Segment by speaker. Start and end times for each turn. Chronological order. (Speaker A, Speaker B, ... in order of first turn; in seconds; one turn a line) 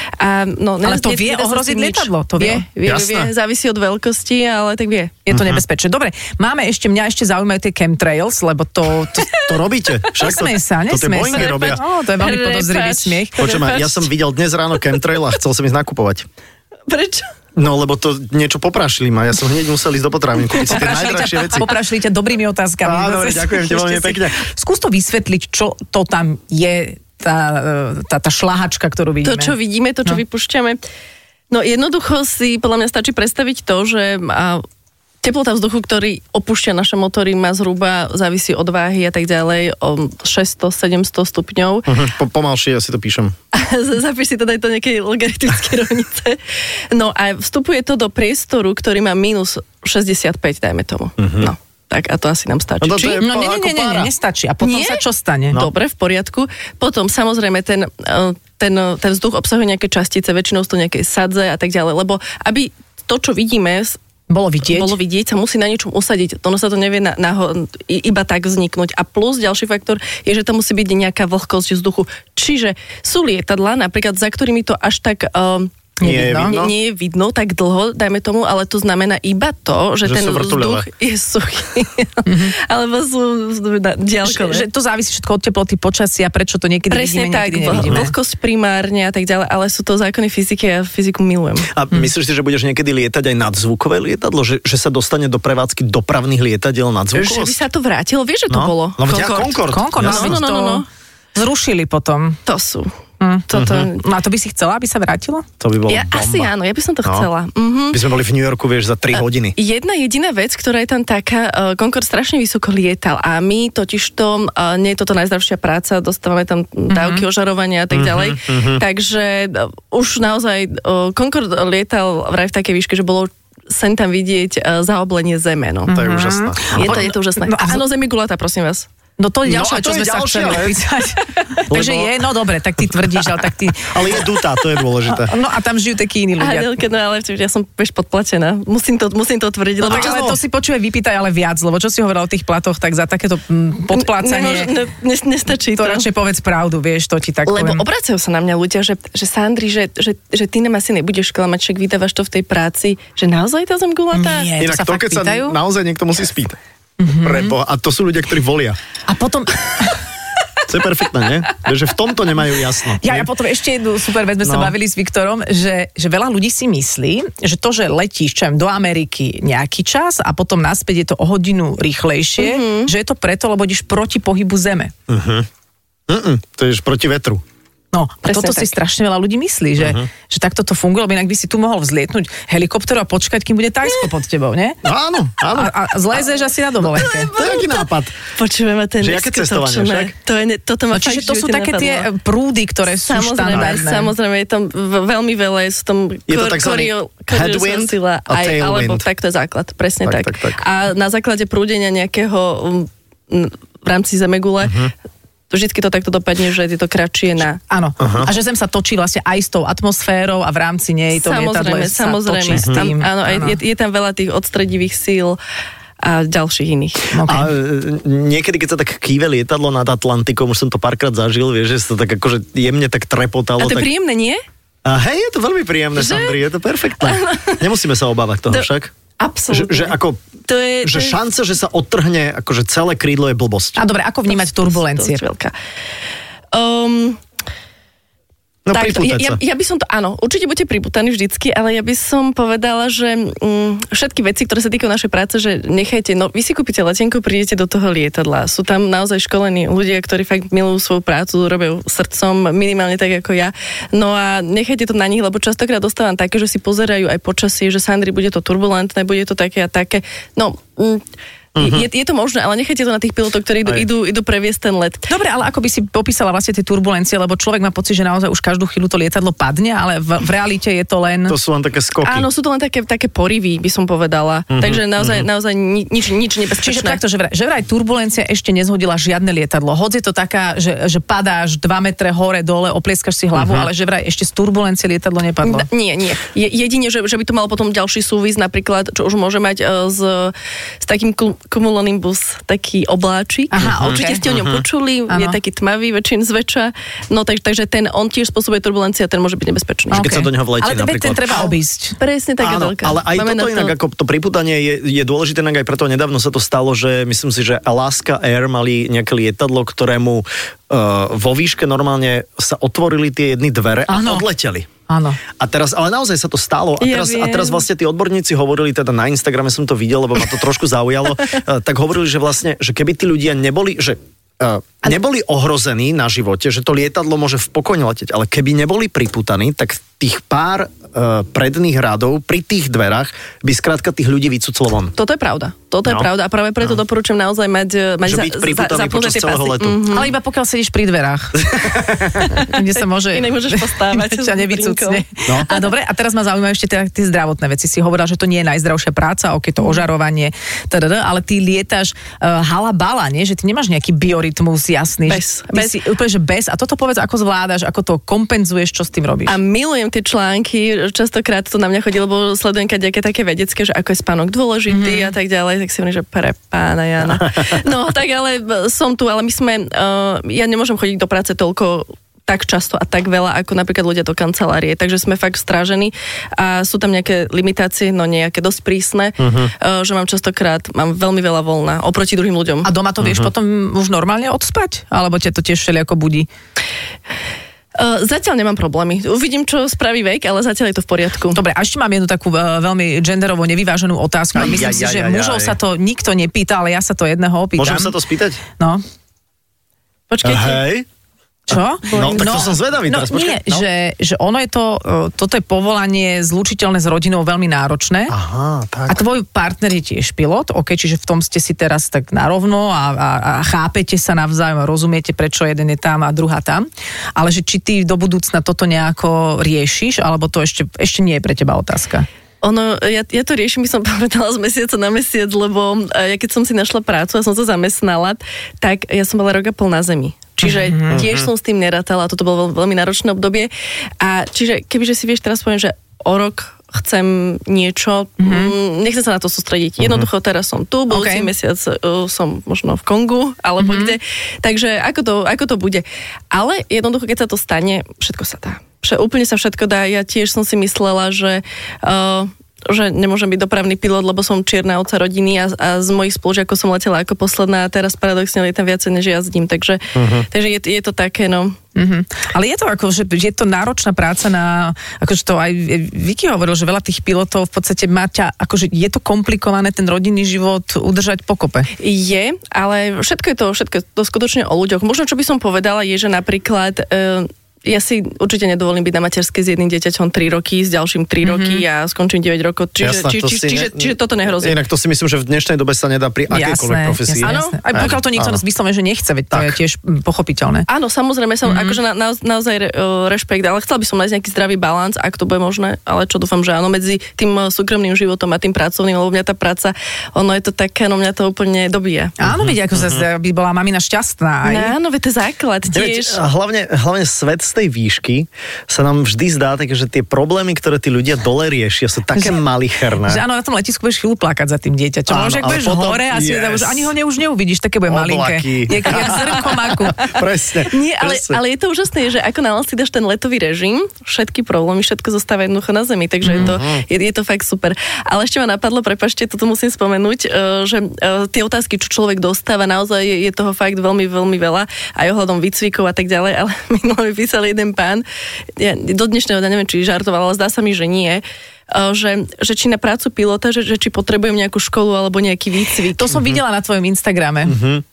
Speaker A: 0.2-5.2
Speaker B: 0.8-2.6
Speaker C: 2.8-3.3
Speaker B: 5.3-9.3
Speaker C: 5.3-5.6
Speaker C: 9.4-11.8
Speaker B: 10.2-13.4
Speaker A: 11.3-14.1
Speaker C: 13.4-16.3
Speaker A: 16.9-17.3
Speaker C: 17.6-21.7
Speaker B: 20.6-29.5
Speaker C: 22.8-24.4
Speaker A: 29.2-30.8
Speaker A: 31.5-34.6
Speaker A: 35.2-41.9
Speaker C: 41.9-43.3
Speaker A: 43.5-53.2
Speaker C: 51.2-51.5
Speaker C: 52.8-54.1
Speaker B: 53.2-55.6
Speaker A: 54.6-64.0
Speaker B: 64.3-65.0
Speaker A: 64.6-84.7
Speaker B: 76.0-76.5
Speaker C: 76.0-76.7
Speaker C: 80.0-80.9
Speaker B: 82.2-82.5
Speaker B: 84.2-88.1
Speaker A: 86.9-91.7
Speaker C: 87.8-88.1
Speaker C: 91.7-97.6
Speaker A: 97.1-100.8
Speaker C: 98.5-100.4
Speaker B: 99.7-100.8
Speaker B: 101.3-102.4
Speaker A: 102.5-102.9
Speaker B: 103.2-105.5
Speaker A: 103.5-104.0
Speaker C: 103.5-103.9
Speaker C: 105.6-106.5
Speaker A: 105.9-108.0
Speaker C: 107.9-109.5
Speaker A: 109.5-125.9
Speaker B: 116.9-117.2
Speaker C: 117.9-118.8
Speaker C: 125.9-127.0
Speaker B: 125.9-127.8
Speaker A: 126.7-128.9
Speaker B: 129.2-134.2
Speaker C: 129.4-130.8
Speaker C: 131.7-132.2
Speaker C: 132.8-133.2
Speaker C: 133.8-135.3
Speaker B: 135.1-136.7
Speaker A: 136.4-140.3
Speaker B: 139.8-144.7
Speaker C: 139.9-140.4
Speaker A: 143.9-146.1
Speaker B: 145.7-147.8
Speaker A: 147.5-154.5
Speaker B: 154.1-155.6
Speaker C: 154.6-156.6
Speaker B: 157.0-157.5
Speaker C: 157.2-158.8
Speaker B: 159.1-160.0
Speaker C: 160.7-163.3
Speaker B: 163.0-174.9
Speaker C: 164.4-164.7
Speaker A: 172.4-172.9
Speaker C: 175.1-175.5
Speaker C: 176.1-177.4
Speaker B: 177.9-184.8
Speaker A: 178.3-178.7
Speaker C: 179.8-180.1
Speaker C: 184.8-185.8
Speaker B: 185.5-187.3
Speaker A: 187.0-192.1
Speaker C: 187.3-188.1
Speaker C: 189.0-190.1
Speaker B: 190.9-194.1
Speaker A: 192.9-204.9
Speaker C: 193.5-193.8
Speaker C: 196.3-199.1
Speaker C: 200.0-200.6
Speaker C: 204.6-204.9
Speaker A: 205.5-207.6
Speaker B: 207.7-213.6
Speaker C: 208.0-208.3
Speaker A: 211.1-215.4
Speaker C: 212.5-212.8
Speaker A: 216.0-217.1
Speaker B: 217.1-217.5
Speaker C: 217.2-223.9
Speaker A: 223.6-224.4
Speaker C: 224.8-228.9
Speaker A: 225.9-226.4
Speaker A: 226.9-227.7
Speaker A: 229.2-229.9
Speaker C: 229.5-230.2
Speaker A: 230.5-231.2
Speaker C: 230.8-233.8
Speaker B: 233.8-235.2
Speaker A: 234.3-235.5
Speaker A: 236.5-237.2
Speaker C: 238.7-239.4
Speaker A: 238.7-261.0
Speaker C: 261.6-261.8
Speaker A: 261.6-265.1
Speaker B: 265.1-271.4
Speaker C: 271.3-272.3
Speaker A: 272.0-277.0
Speaker C: 274.5-275.3
Speaker B: 276.6-285.7
Speaker C: 283.3-283.7
Speaker A: 285.4-300.2
Speaker B: 293.5-294.2
Speaker C: 293.6-294.6
Speaker B: 295.1-295.4
Speaker B: 299.9-302.0
Speaker C: 299.9-301.5
Speaker A: 302.0-303.7
Speaker C: 302.4-314.7
Speaker B: 313.9-314.3
Speaker B: 314.9-315.2
Speaker C: 315.4-334.9
Speaker A: 316.8-317.6
Speaker A: 334.9-340.1
Speaker C: 338.1-339.9
Speaker B: 339.9-359.4
Speaker C: 341.4-342.3
Speaker A: 342.3-345.6
Speaker A: 355.1-355.8
Speaker A: 359.2-382.7
Speaker B: 364.7-365.1
Speaker C: 379.2-379.5
Speaker B: 382.6-386.3
Speaker C: 383.0-383.3
Speaker A: 387.7-391.4
Speaker B: 391.3-397.9
Speaker C: 394.3-395.6
Speaker C: 397.6-398.4
Speaker B: 398.6-398.8
Speaker A: 400.1-400.6
Speaker C: 400.2-400.9
Speaker B: 401.5-408.1
Speaker A: 401.9-402.5
Speaker C: 401.9-403.6
Speaker C: 408.1-409.0
Speaker B: 408.9-422.1
Speaker A: 422.4-461.6
Speaker B: 430.4-431.0
Speaker C: 430.9-431.3
Speaker B: 438.2-438.5
Speaker C: 439.8-440.1
Speaker B: 440.9-441.3
Speaker B: 443.6-444.0
Speaker C: 459.9-460.3
Speaker B: 461.8-471.7
Speaker A: 471.8-484.6
Speaker B: 481.2-481.6
Speaker C: 482.8-488.4
Speaker B: 486.3-490.6
Speaker A: 487.2-487.6
Speaker C: 489.3-489.6
Speaker A: 490.7-502.2
Speaker B: 491.4-491.8
Speaker B: 502.2-504.7
Speaker C: 502.2-503.0
Speaker A: 504.4-506.2
Speaker C: 505.7-513.2
Speaker B: 513.0-520.0
Speaker C: 515.1-516.9
Speaker C: 517.9-521.4
Speaker A: 520.0-538.0
Speaker B: 526.2-526.5
Speaker C: 526.4-526.8
Speaker A: 538.6-546.1
Speaker B: 545.9-547.6
Speaker C: 547.5-547.8